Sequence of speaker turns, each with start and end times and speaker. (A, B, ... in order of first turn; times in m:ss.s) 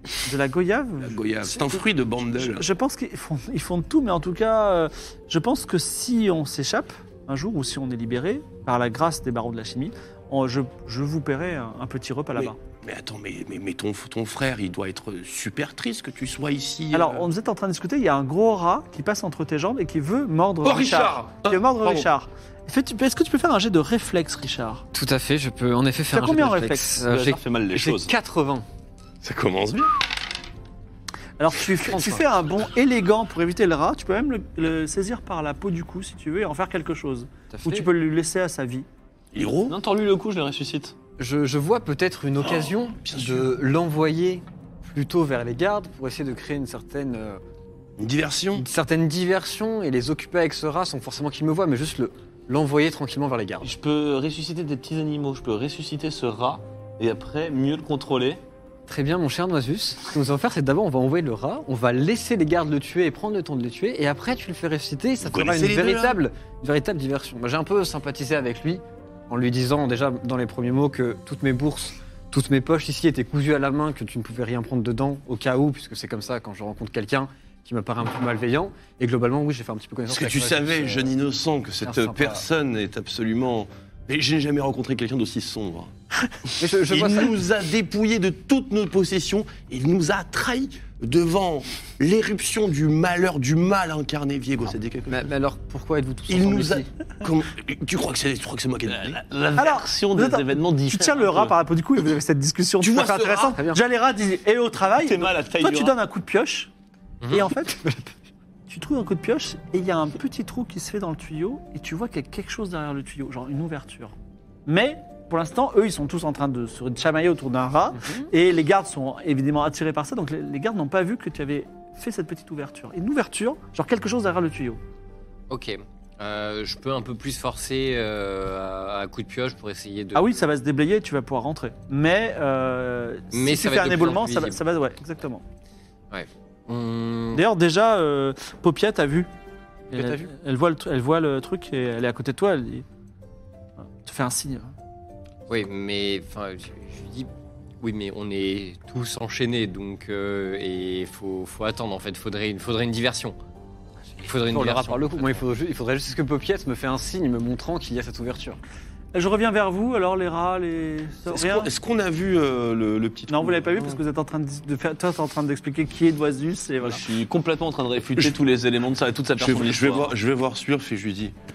0:00.2-0:01.8 A
0:01.0-0:02.7 B
0:02.4-0:12.6 A
0:12.4-0:17.3 B
0:16.9-0:24.8 A
0:20.6-0:22.1 B
0:24.9-0:28.7 C
0:26.1-0:27.0 A
0:27.0-0:28.1 D
0:29.2-0:29.9 B
0:31.4-0:38.9 A
0:31.9-0:32.2 C
0:37.5-0:37.9 C
0:39.3-0:39.8 B
0:39.7-0:41.0 D
0:41.2-0:47.4 C
0:42.4-0:43.5 B
0:48.0-0:48.6 B
0:48.6-0:53.7 C
0:53.6-0:58.4 D
0:58.9-1:21.1 C
1:05.2-1:06.2 B
1:20.1-1:25.9 B
1:21.8-1:22.4 C
1:26.6-1:27.3 C
1:26.9-1:35.3 B
1:35.1-1:36.9 C
1:36.3-1:39.2 B
1:38.9-1:41.6 D
1:39.6-1:46.7 A
1:42.8-1:43.6 B
1:43.5-1:43.8 C
1:45.0-1:46.0 D
1:47.2-1:47.5 E
1:47.3-1:48.0 A
1:48.7-1:54.1 A
1:54.7-2:04.8 A
2:05.5-2:10.4 E
2:10.2-2:15.4 A
2:13.3-2:14.6 E
2:16.1-2:17.4 E
2:17.3-2:19.3 A
2:19.9-2:20.3 C
2:19.9-2:22.8 A
2:24.0-2:24.7 A
2:25.5-2:27.3 E
2:27.8-2:33.4 E
2:34.2-2:35.4 E
2:34.5-2:38.6 C
2:39.1-2:41.7 A
2:41.3-2:44.0 B
2:43.3-2:47.0 A
2:46.8-2:50.1 D
2:49.4-2:51.3 B